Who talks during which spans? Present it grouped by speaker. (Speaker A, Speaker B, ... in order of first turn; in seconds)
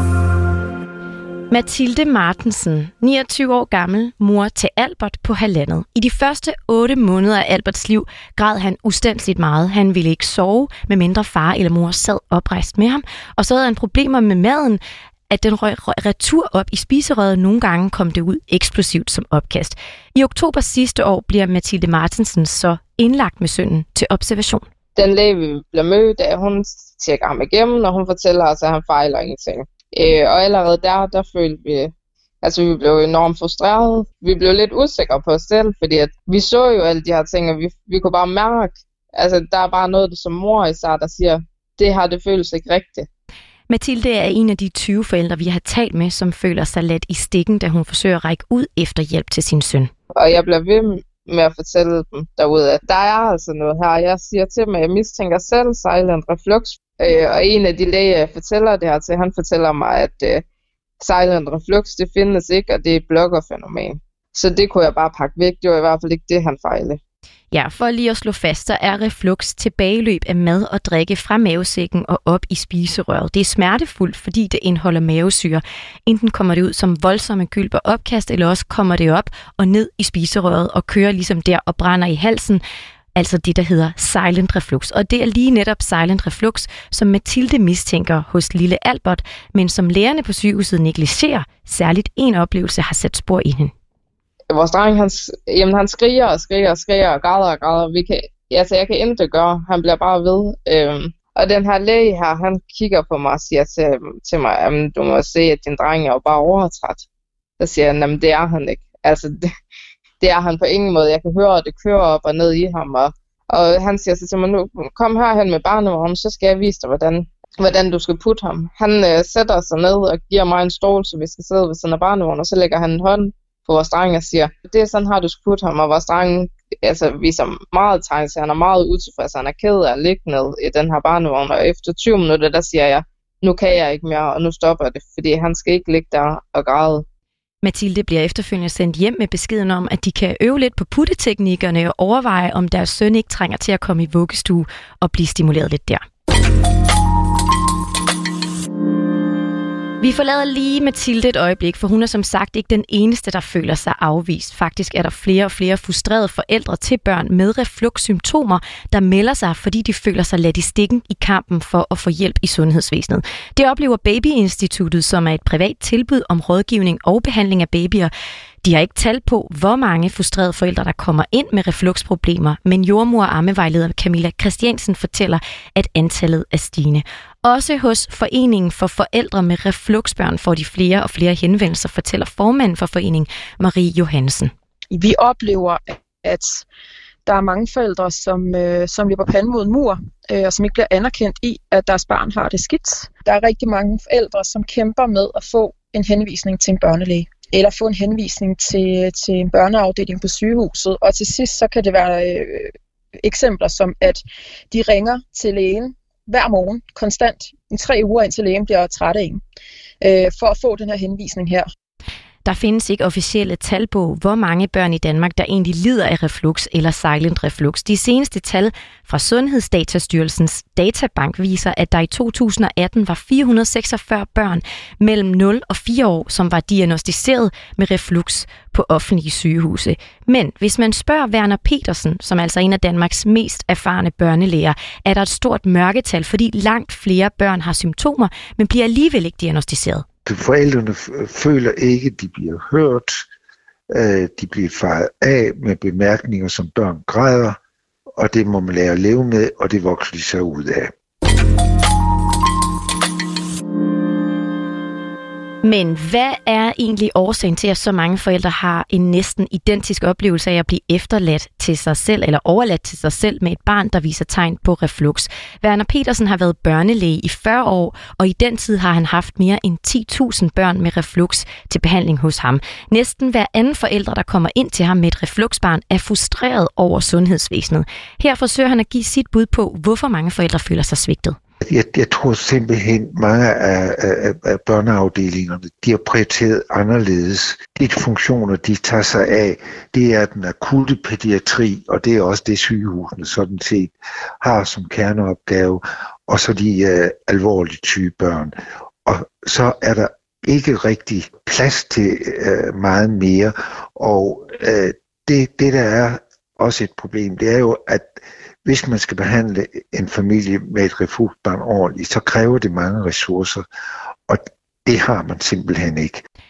Speaker A: 1.5-24.6, 43.7-49.9, 67.5-82.6, 83.1-93.7, 137.6-146.0, 150.0-168.1, 168.6-184.5, 212.4-240.0, 255.6-281.4
Speaker B: 24.9-43.1, 50.1-60.4, 61.0-67.0, 94.5-107.0, 107.6-109.4, 110.2-137.1
Speaker C: 184.9-186.7, 187.2-209.4, 210.0-211.7
Speaker D: 240.2-243.2, 243.9-247.6, 248.2-250.9, 281.7-313.6, 314.3-316.2